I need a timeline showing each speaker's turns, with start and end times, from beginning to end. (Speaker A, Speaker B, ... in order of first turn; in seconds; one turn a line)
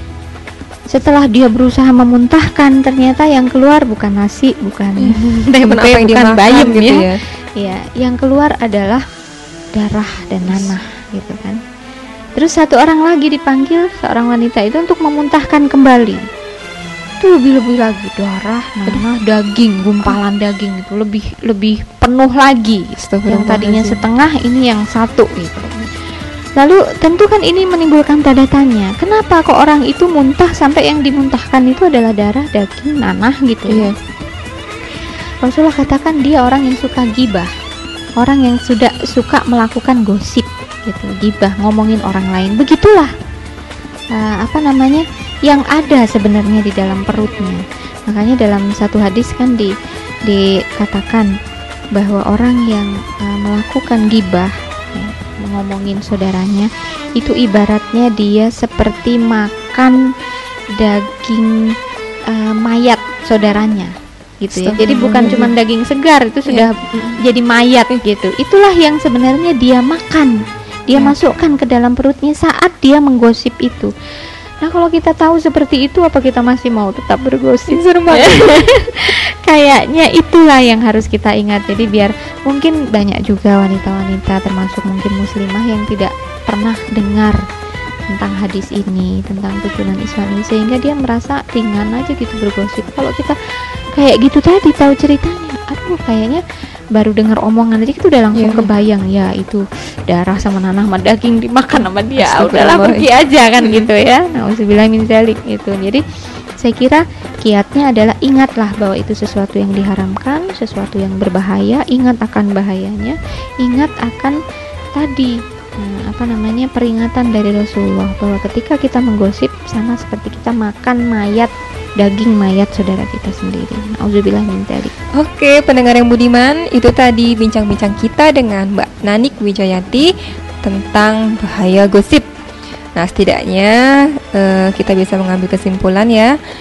Speaker A: 0.9-9.1
Speaker B: 5.0-7.2
Speaker A: 9.8-11.6
Speaker A: 12.4-16.3
Speaker A: 17.2-25.9
Speaker B: 23.0-24.0
Speaker A: 26.6-33.9
Speaker B: 33.7-33.9
Speaker A: 35.4-37.5
Speaker A: 38.2-43.1
Speaker A: 44.1-49.7
Speaker A: 50.3-51.3
Speaker A: 52.0-60.0
Speaker A: 60.8-61.7
Speaker A: 62.3-73.9
Speaker B: 64.6-65.5
Speaker B: 66.5-67.2
Speaker A: 74.6-87.4
Speaker B: 77.7-78.7
Speaker A: 88.1-93.4
Speaker A: 94.0-96.4
Speaker A: 97.0-106.0
Speaker B: 98.3-98.7
Speaker B: 102.2-103.1
Speaker A: 106.6-114.4
Speaker A: 115.0-124.9
Speaker B: 125.2-130.1
Speaker B: 130.6-132.3
Speaker B: 133.0-136.3